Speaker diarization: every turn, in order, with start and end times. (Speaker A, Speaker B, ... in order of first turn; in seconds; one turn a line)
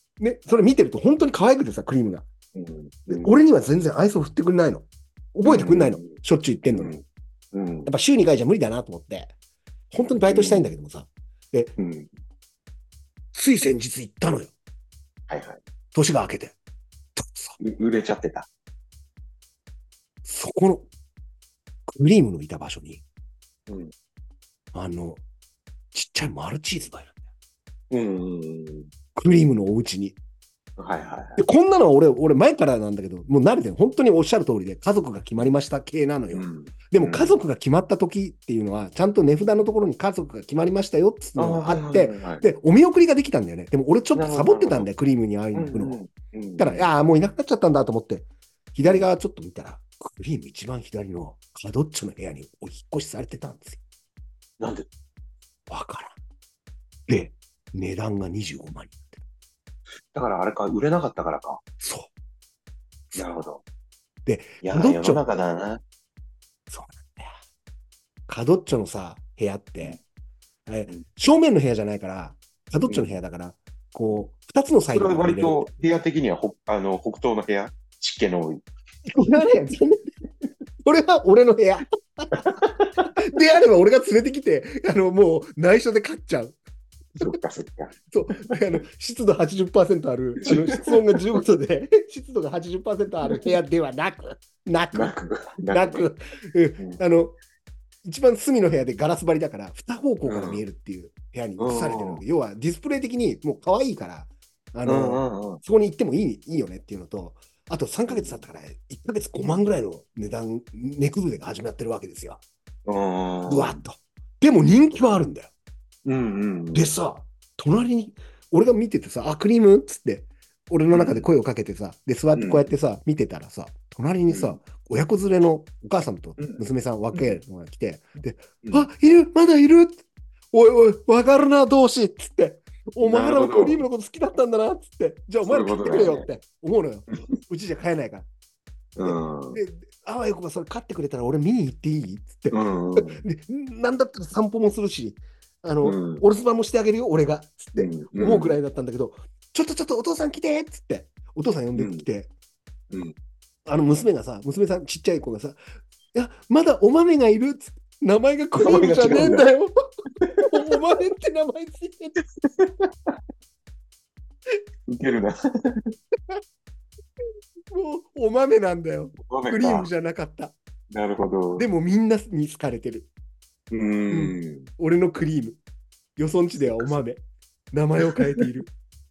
Speaker A: 0.2-2.2
Speaker B: 2.5-3.4
Speaker A: 3.1-6.9
Speaker B: 5.4-6.1
Speaker B: 6.7-7.9
Speaker A: 7.8-9.3
Speaker A: 9.9-11.7
Speaker B: 10.2-10.7
Speaker B: 11.8-12.1
Speaker A: 13.3-14.5
Speaker B: 15.3-15.6
Speaker A: 15.9-16.6
Speaker A: 17.2-17.6
Speaker B: 17.6-18.5
Speaker A: 20.2-20.9
Speaker A: 21.9-23.0
Speaker B: 23.7-23.9
Speaker A: 24.7-25.2
Speaker A: 25.9-27.1
Speaker B: 27.9-28.9
Speaker A: 29.1-30.2
Speaker B: 30.8-31.4
Speaker A: 31.4-46.0
Speaker B: 36.3-37.4
Speaker B: 41.4-42.4
Speaker B: 44.1-44.9
Speaker B: 45.5-46.9
Speaker A: 46.6-53.8
Speaker B: 54.6-54.9
Speaker A: 55.7-56.1
Speaker A: 57.1-59.2
Speaker B: 60.1-61.6
Speaker A: 61.8-62.1
Speaker B: 63.1-63.6
Speaker A: 64.2-65.2
Speaker B: 64.6-65.8
Speaker A: 66.7-67.3
Speaker A: 68.3-70.0
Speaker A: 70.7-75.7
Speaker B: 74.9-78.6
Speaker A: 79.1-80.1
Speaker A: 80.8-82.5
Speaker B: 82.3-83.1
Speaker A: 83.2-86.6
Speaker B: 87.2-88.5
Speaker A: 88.1-95.2
Speaker B: 90.4-91.2
Speaker B: 94.9-96.1
Speaker A: 95.7-97.3
Speaker A: 98.0-112.4
Speaker B: 100.2-100.6
Speaker B: 101.6-102.2
Speaker B: 104.8-105.6
Speaker B: 108.1-108.4
Speaker B: 112.8-113.8
Speaker A: 113.5-115.5
Speaker B: 116.0-116.9
Speaker A: 116.7-138.2
Speaker B: 120.9-121.3
Speaker B: 122.3-122.7
Speaker B: 124.3-124.6
Speaker B: 133.0-133.8
Speaker B: 135.4-136.3
Speaker B: 138.9-139.6
Speaker A: 139.0-152.3
Speaker B: 142.5-143.2
Speaker B: 145.8-146.2
Speaker B: 147.8-148.6
Speaker B: 151.7-152.0
Speaker A: 153.7-155.6
Speaker A: 156.1-159.7
Speaker B: 158.6-159.5
Speaker B: 160.2-160.8
Speaker A: 160.5-162.2
Speaker B: 162.6-163.1
Speaker B: 164.9-165.9
Speaker A: 167.7-170.6
Speaker B: 169.2-169.9
Speaker B: 170.9-171.7
Speaker A: 171.6-173.1
Speaker B: 173.7-174.7
Speaker A: 174.1-175.6
Speaker A: 176.2-178.7
Speaker B: 176.6-177.0
Speaker B: 178.1-178.4